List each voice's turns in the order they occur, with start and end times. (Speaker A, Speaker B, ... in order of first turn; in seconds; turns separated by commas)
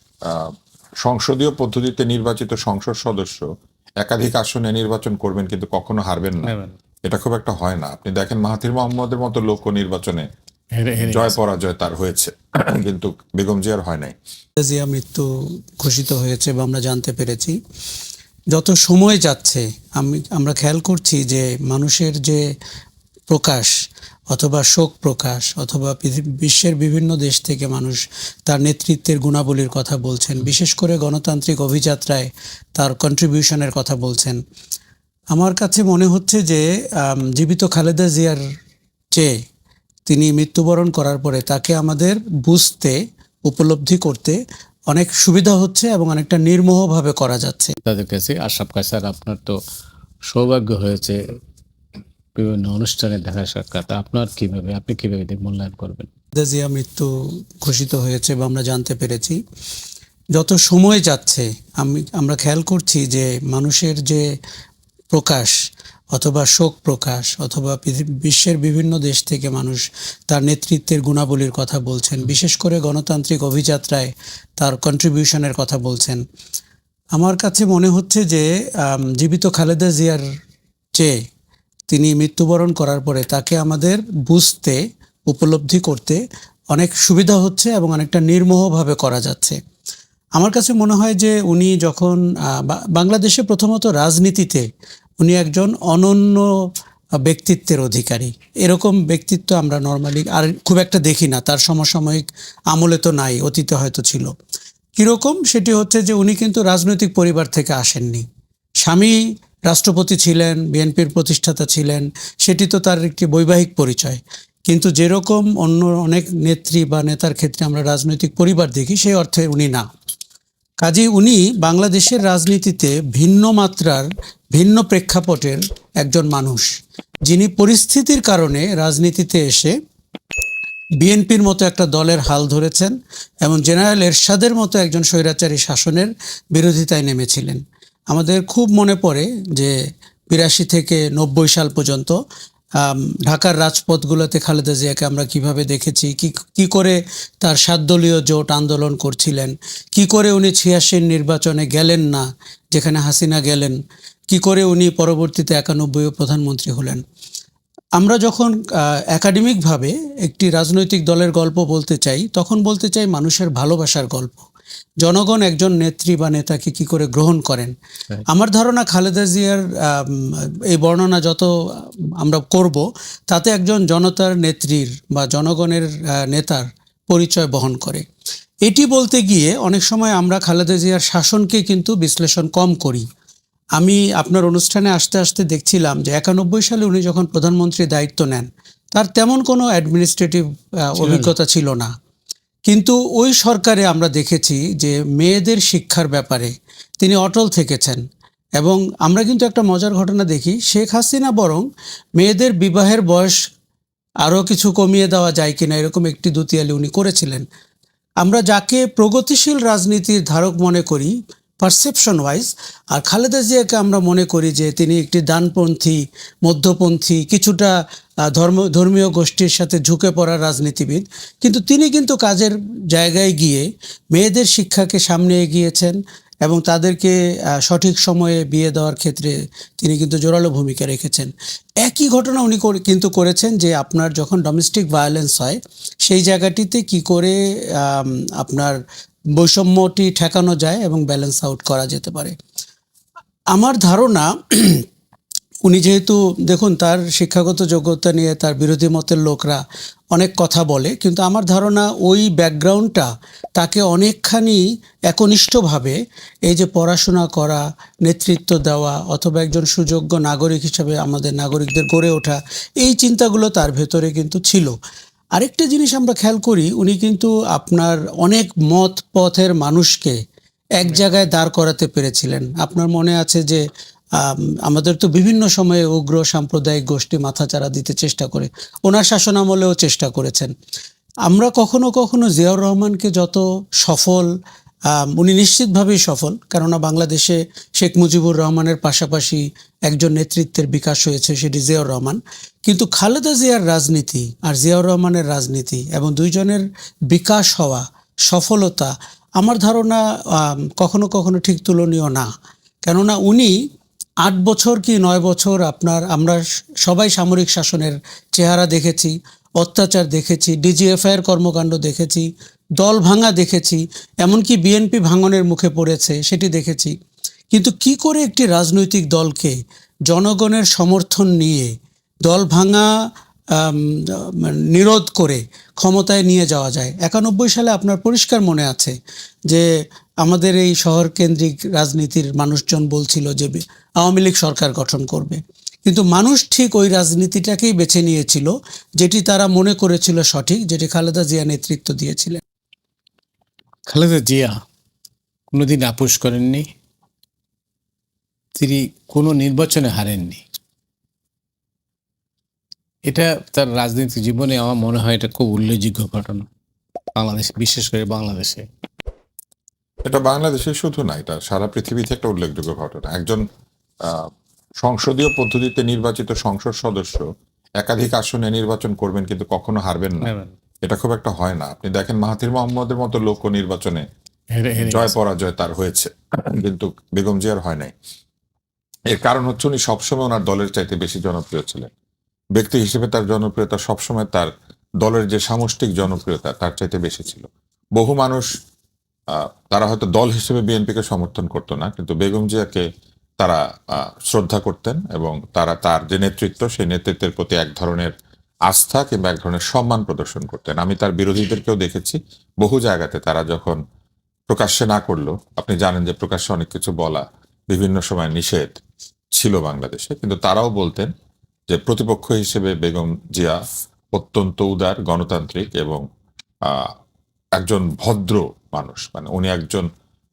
Speaker A: 1.0-3.5, Speaker A: 4.0-6.5, Speaker B: 6.5-6.7, Speaker A: 7.1-10.2, Speaker B: 10.8-11.4, Speaker A: 11.0-14.1, Speaker C: 14.6-15.2, Speaker C: 15.8-17.6, Speaker C: 18.5-22.4, Speaker C: 23.3-23.7, Speaker C: 24.3-34.4, Speaker C: 35.3-38.4, Speaker C: 40.1-42.9, Speaker C: 43.5-44.4, Speaker C: 44.9-47.8, Speaker B: 47.8-49.5, Speaker B: 50.3-51.2, Speaker B: 52.4-56.1, Speaker C: 56.4-57.1, Speaker C: 57.6-59.4, Speaker C: 60.4-64.2, Speaker C: 65.1-65.5, Speaker C: 66.1-76.2, Speaker C: 77.1-80.2, Speaker C: 81.9-86.2, Speaker C: 86.7-89.6, Speaker C: 90.4-94.6, Speaker C: 95.2-96.4, Speaker C: 97.2-104.3, Speaker C: 105.0-108.2, Speaker C: 108.8-109.2, Speaker C: 109.7-119.8, Speaker C: 120.8-126.7, Speaker C: 127.3-129.7, Speaker C: 131.0-132.9, Speaker C: 133.4-139.7, Speaker C: 140.3-142.2, Speaker C: 142.8-153.8, Speaker C: 154.3-157.0, Speaker C: 158.0-158.5, Speaker C: 159.1-164.4, Speaker C: 165.0-167.7, Speaker C: 168.3-171.5, Speaker C: 172.2-178.0, Speaker C: 178.7-183.0, Speaker C: 183.8-191.9, Speaker B: 191.0-191.3, Speaker C: 192.7-196.5, Speaker C: 197.0-198.0, Speaker C: 198.6-201.7, Speaker C: 202.2-203.3, Speaker C: 204.2-207.4, Speaker C: 208.2-217.7, Speaker C: 218.3-223.6, Speaker C: 224.1-227.1, Speaker C: 227.7-238.8, Speaker C: 239.4-242.3, Speaker C: 243.5-244.8, Speaker C: 245.7-249.6, Speaker C: 250.1-256.0, Speaker C: 256.5-264.7, Speaker C: 265.4-270.1, Speaker C: 270.8-273.6, Speaker C: 274.2-280.5, Speaker C: 281.3-284.3, Speaker C: 285.0-302.3, Speaker C: 302.9-303.5, Speaker C: 304.2-312.3, Speaker C: 312.8-316.9, Speaker C: 317.5-319.6, Speaker C: 320.1-321.7, Speaker C: 322.3-322.9, Speaker C: 323.6-328.9, Speaker C: 330.2-342.4, Speaker B: 343.9-344.6, Speaker B: 345.5-346.6, Speaker B: 348.6-350.4, Speaker B: 353.1-356.4, Speaker B: 357.2-358.6, Speaker A: 360.1-363.4, Speaker A: 364.0-364.3, Speaker A: 364.8-367.2, Speaker A: 367.8-370.3, Speaker B: 370.2-370.5, Speaker A: 370.8-374.0, Speaker B: 374.5-375.1, Speaker A: 374.8-377.9, Speaker A: 379.1-381.9, Speaker A: 382.6-384.5, Speaker A: 385.0-388.5, Speaker A: 389.3-392.9, Speaker A: 393.4-398.1, Speaker A: 398.7-403.8, Speaker A: 404.5-408.8, Speaker A: 409.4-411.1, Speaker A: 411.7-413.6, Speaker A: 414.1-416.0, Speaker A: 417.6-419.9